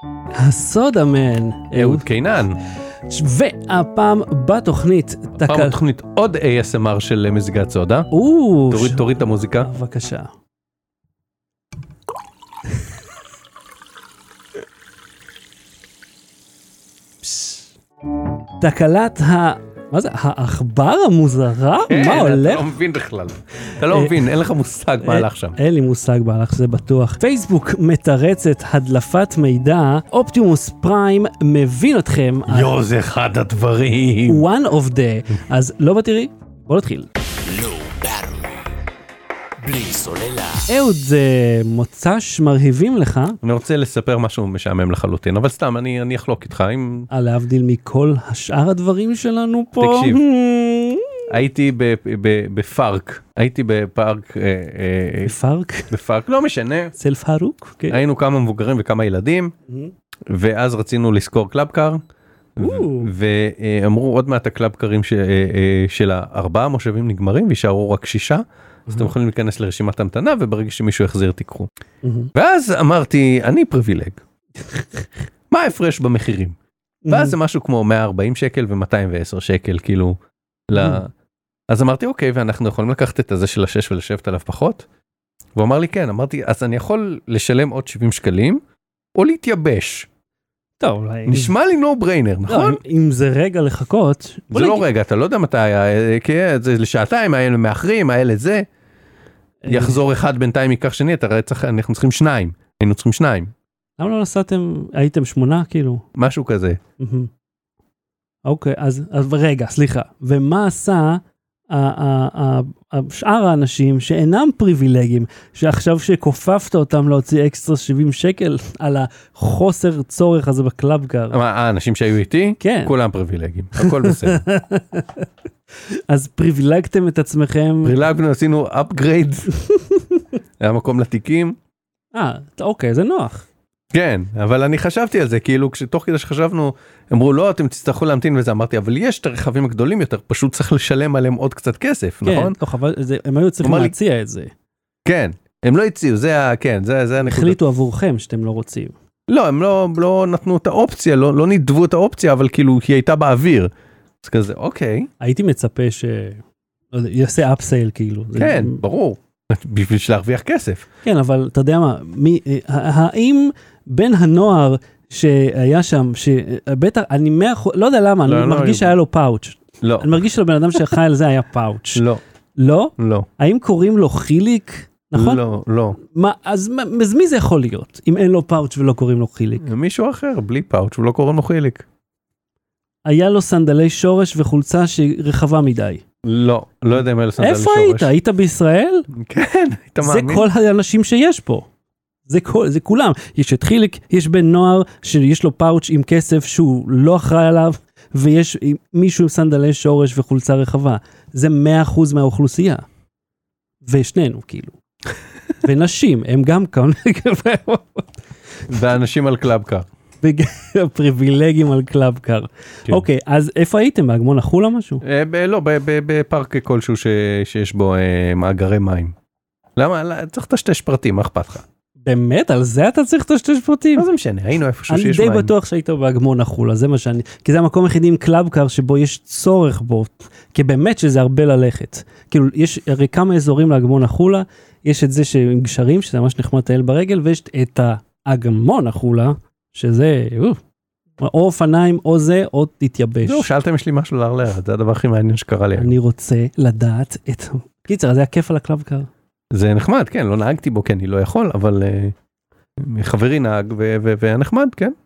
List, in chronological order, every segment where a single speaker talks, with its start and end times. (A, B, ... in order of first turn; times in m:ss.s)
0:00.4-0:02.0 A
0:01.7-0:02.6 B
0:03.1-0:05.8 A
0:05.4-0:08.1 B
0:08.1-0:10.3 A
0:08.7-0:09.7 B
0:17.3-0:17.6 A
0:18.6-0:22.7 A
0:21.9-0:25.6 B
0:23.9-0:24.1 A
0:25.0-0:32.7 A
0:32.5-0:34.5 B
0:34.2-0:37.1 A
0:37.3-0:38.7 C
0:39.6-0:40.7 C
0:40.7-0:43.4 A
0:43.4-0:47.1 B
0:47.1-0:51.2 A
0:49.8-0:50.2 B
0:51.3-0:55.3 B
0:55.2-0:55.9 A
0:55.9-0:56.9 B
0:57.0-0:58.0 A
0:57.9-0:59.5 B
1:00.3-1:02.0 B
1:02.6-1:11.7 B
1:02.6-1:03.1 A
1:12.0-1:12.3 A
1:12.3-1:14.2 B
1:14.7-1:15.0 A
1:15.5-1:16.6 B
1:17.0-1:17.4 A
1:17.1-1:20.2 B
1:20.7-1:21.1 B
1:20.7-1:21.0 A
1:21.7-1:24.8 B
1:25.5-1:28.6 B
1:29.1-1:30.1 B
1:30.8-1:31.5 A
1:31.3-1:32.8 B
1:32.5-1:34.8 A
1:34.5-1:38.6 B
1:39.6-1:40.0 A
1:39.7-1:43.5 B
1:44.0-1:46.0 A
1:46.1-1:46.8 B
1:47.0-1:47.3 A
1:48.4-2:01.4 A
2:01.3-2:04.4 B
2:02.6-2:02.9 A
2:03.8-2:05.3 A
2:06.1-2:08.0 A
2:07.8-2:09.5 B
2:09.7-2:10.2 A
2:10.6-2:11.6 B
2:12.1-2:13.4 A
2:13.9-2:22.6 B
2:22.2-2:24.5 A
2:23.6-2:23.9 B
2:25.0-2:27.6 B
2:27.2-2:28.9 A
2:29.3-2:35.1 B
2:35.2-2:38.8 A
2:38.4-2:40.9 B
2:41.0-2:55.4 A
2:48.2-2:49.0 B
2:49.8-2:50.1 B
2:51.9-2:52.2 B
2:53.0-2:53.3 B
2:55.1-2:56.0 B
2:56.0-2:59.7 A
2:59.6-3:01.8 B
3:03.0-3:06.0 A
3:06.2-3:08.1 B
3:07.4-3:09.1 A
3:09.1-3:10.5 B
3:10.0-3:11.7 A
3:12.3-3:22.8 A
3:23.8-3:24.7 A
3:25.6-3:28.1 A
3:28.7-3:29.8 B
3:30.2-3:35.0 A
3:35.0-3:39.1 B
3:39.8-3:41.6 B
3:42.0-3:44.0 A
3:44.0-3:45.5 B
3:44.9-4:00.6 A
4:01.2-4:03.5 A
4:03.2-4:05.9 B
4:05.7-4:09.1 A
4:09.5-4:12.1 B
4:12.8-4:14.9 B